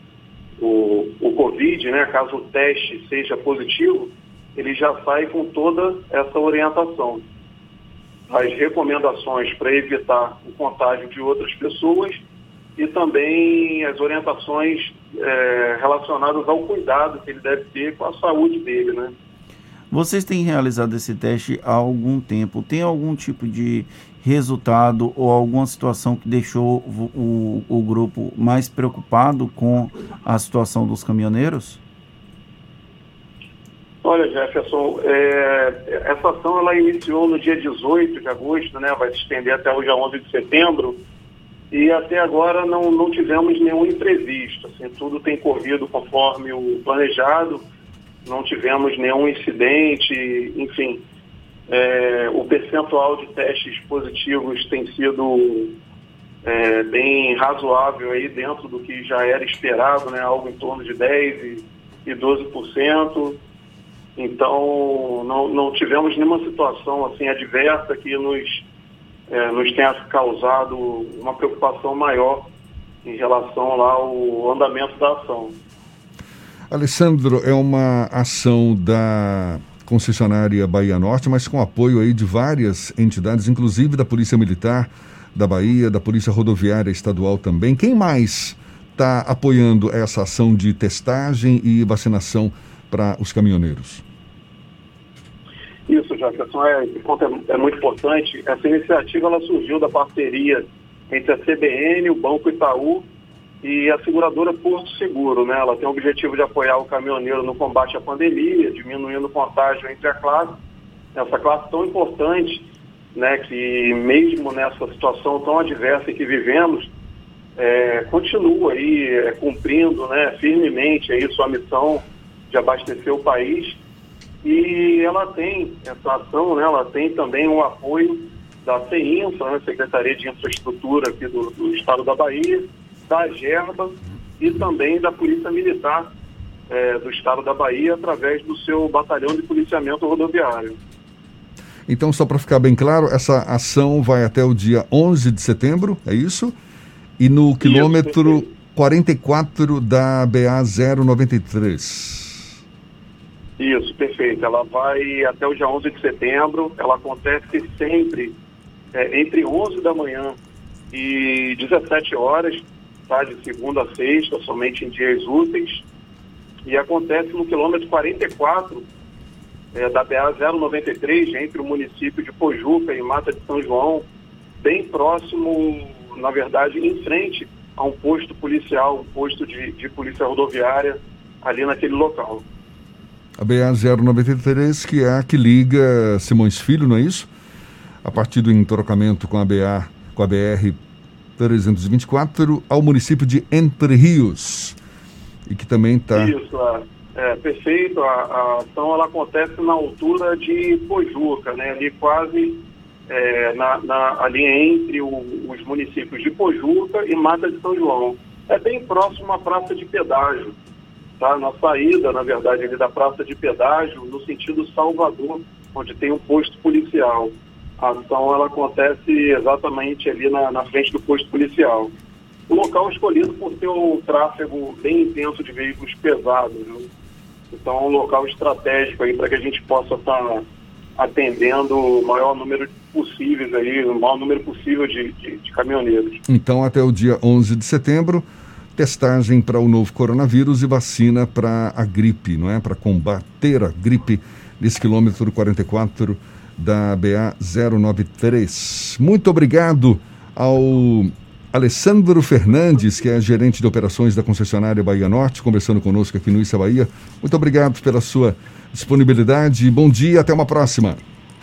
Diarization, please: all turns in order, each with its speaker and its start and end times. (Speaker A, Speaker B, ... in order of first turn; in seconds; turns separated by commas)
Speaker A: 0.6-7.2, Speaker A: 8.3-12.2, Speaker A: 12.8-19.1, Speaker B: 19.9-31.8, Speaker A: 34.0-41.0, Speaker A: 41.7-47.6, Speaker A: 48.2-51.0, Speaker A: 51.7-55.8, Speaker A: 56.4-63.4, Speaker A: 64.2-68.7, Speaker A: 69.3-72.5, Speaker A: 73.0-75.6, Speaker C: 76.7-94.0, Speaker A: 95.9-103.1, Speaker A: 103.6-110.6, Speaker A: 111.1-116.9, Speaker A: 117.6-123.8, Speaker A: 124.4-136.1, Speaker A: 136.7-140.8, Speaker C: 141.9-146.5, Speaker C: 147.2-152.5, Speaker A: 147.6-148.5, Speaker A: 153.6-158.4, Speaker A: 158.9-160.4, Speaker A: 160.9-165.8, Speaker A: 166.6-168.9, Speaker A: 169.7-174.0, Speaker A: 174.6-182.4, Speaker C: 183.4-187.3, Speaker C: 188.0-190.8, Speaker C: 191.4-194.8, Speaker C: 195.5-196.3, Speaker A: 196.1-210.6, Speaker A: 211.2-221.9, Speaker A: 222.5-226.9, Speaker A: 227.5-230.4, Speaker A: 231.0-236.2, Speaker C: 236.3-261.0